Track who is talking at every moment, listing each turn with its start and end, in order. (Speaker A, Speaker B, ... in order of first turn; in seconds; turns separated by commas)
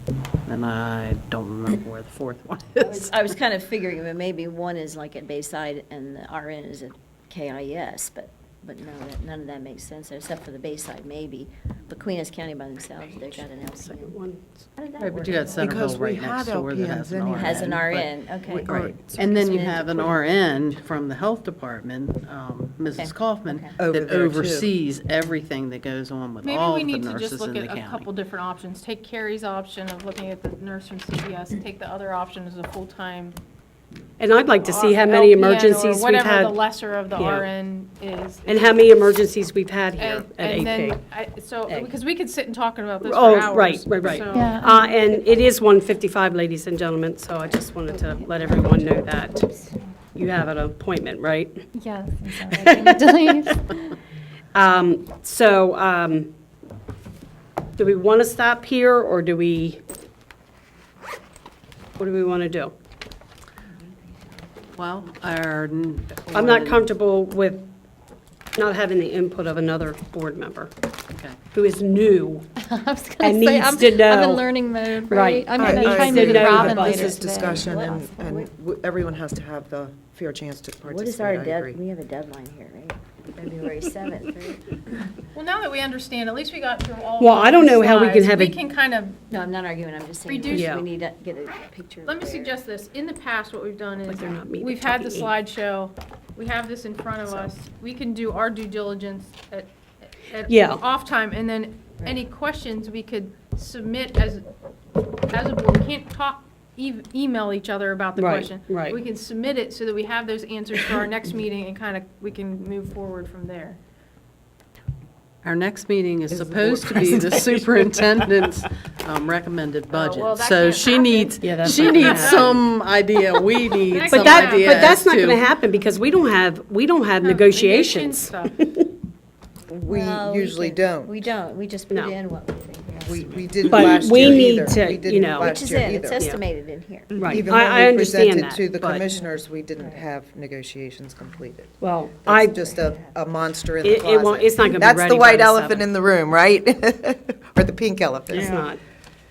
Speaker A: 0.5-3.2, Speaker B: 2.8-14.2, Speaker C: 13.3-14.6, Speaker B: 14.8-15.8, Speaker A: 15.1-18.1, Speaker D: 15.6-17.8, Speaker B: 17.3-20.2, Speaker D: 18.5-19.2, Speaker A: 19.1-28.2, Speaker B: 22.9-23.8, Speaker D: 23.8-24.7, Speaker E: 26.4-33.3, Speaker C: 34.2-36.6, Speaker E: 34.7-38.6, Speaker C: 37.1-37.5, Speaker C: 38.5-41.0, Speaker E: 40.0-44.5, Speaker C: 41.7-42.0, Speaker C: 43.0-49.5, Speaker F: 44.3-44.8, Speaker B: 47.9-48.9, Speaker C: 50.1-51.6, Speaker F: 51.8-53.6, Speaker C: 54.5-56.3, Speaker C: 57.8-59.8, Speaker C: 62.0-62.7, Speaker A: 64.8-66.9, Speaker C: 66.3-67.6, Speaker C: 68.5-70.7, Speaker C: 71.5-72.5, Speaker F: 72.6-78.1, Speaker C: 73.2-74.5, Speaker C: 75.1-77.2, Speaker D: 75.6-81.8, Speaker B: 77.5-78.5, Speaker B: 80.8-84.8, Speaker E: 85.3-89.1, Speaker C: 87.2-88.6, Speaker B: 89.3-92.6, Speaker E: 90.3-90.5, Speaker C: 90.5-90.8, Speaker E: 92.1-99.7, Speaker C: 94.0-95.3, Speaker E: 100.3-104.4, Speaker C: 100.5-100.8, Speaker E: 105.3-113.8, Speaker C: 108.2-109.0, Speaker A: 115.4-125.4, Speaker D: 116.3-117.4, Speaker E: 119.9-121.3, Speaker C: 121.4-122.6, Speaker E: 122.1-122.4, Speaker E: 123.9-124.7, Speaker C: 124.1-128.5, Speaker E: 127.2-128.4, Speaker D: 129.7-131.2, Speaker B: 129.9-134.3, Speaker C: 131.9-132.1, Speaker D: 133.0-136.2, Speaker C: 133.7-135.5, Speaker B: 135.4-137.2, Speaker C: 137.1-139.0, Speaker D: 137.2-141.7, Speaker B: 139.8-140.1, Speaker C: 141.8-142.6, Speaker D: 142.2-148.6, Speaker B: 142.7-143.1, Speaker C: 143.8-145.8, Speaker C: 148.3-148.8